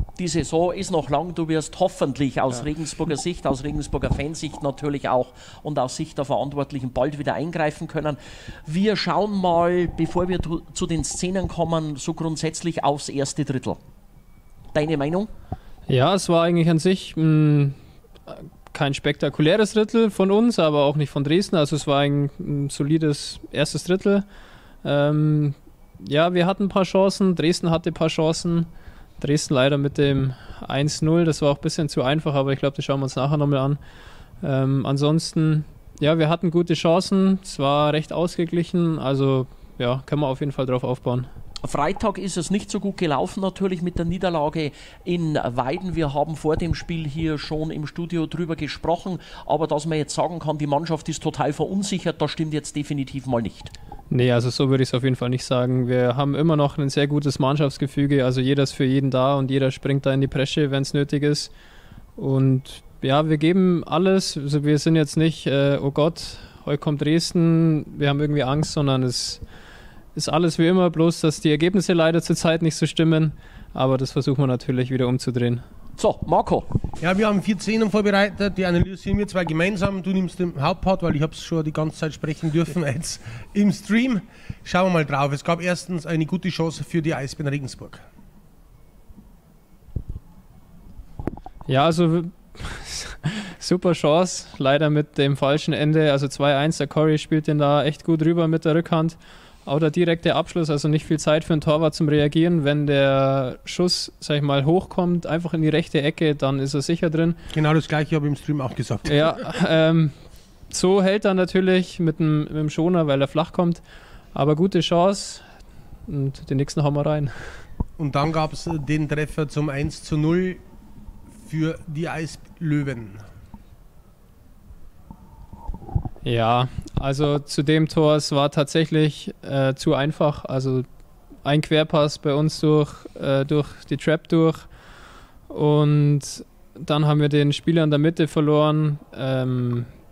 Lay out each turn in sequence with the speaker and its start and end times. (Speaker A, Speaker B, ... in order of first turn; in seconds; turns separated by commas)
Speaker A: 0.2-13.8, Speaker A: 14.7-15.3, Speaker B: 15.9-24.2, Speaker B: 24.8-33.8, Speaker B: 34.4-41.3, Speaker A: 41.6-53.7, Speaker B: 54.1-61.5, Speaker B: 62.2-69.4, Speaker B: 70.1-75.6, Speaker A: 76.0-76.7, Speaker C: 77.0-88.0, Speaker B: 91.7-107.4, Speaker C: 107.5-109.3, Speaker B: 109.1-110.1, Speaker B: 110.7-113.8, Speaker B: 114.3-115.5, Speaker B: 116.1-117.6, Speaker C: 118.0-120.6, Speaker C: 121.5-123.2, Speaker B: 126.2-130.8, Speaker B: 131.4-134.7, Speaker B: 135.5-139.9